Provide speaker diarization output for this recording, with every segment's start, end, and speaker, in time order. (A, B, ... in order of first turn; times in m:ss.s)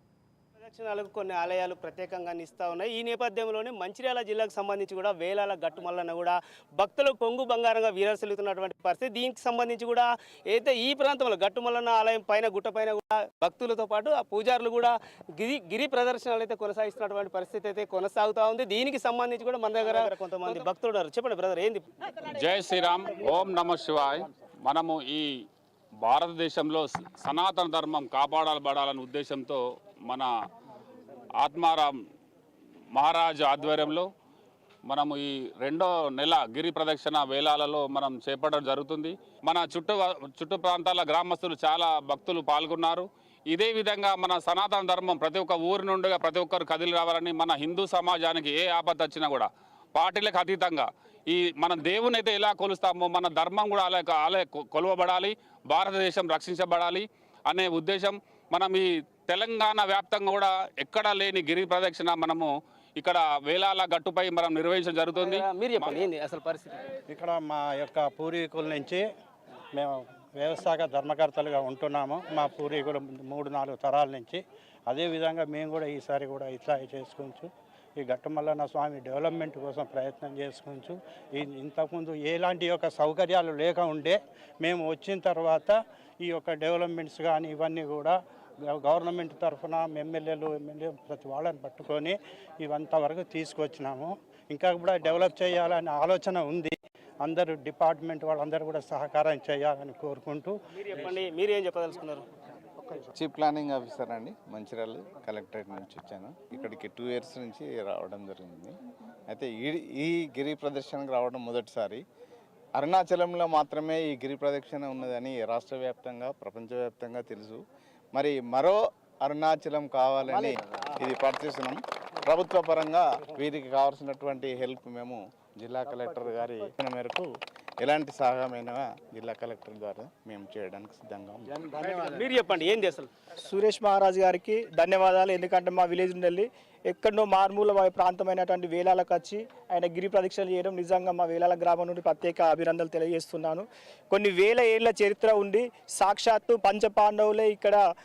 0:00.6-0:21.9 A
0:22.4-0:25.3 B
0:26.0-0:30.3 B
0:31.4-0:31.9 B
0:33.0-0:34.1 B
0:34.9-1:06.0 B
1:05.2-1:06.8 A
1:07.1-1:09.0 C
1:09.7-1:40.5 C
1:40.8-1:42.3 A
1:43.2-1:48.8 D
1:49.3-1:52.0 D
1:52.8-1:57.6 D
1:58.1-2:07.3 D
2:07.8-2:11.7 D
2:11.8-2:13.1 A
2:13.4-2:27.8 E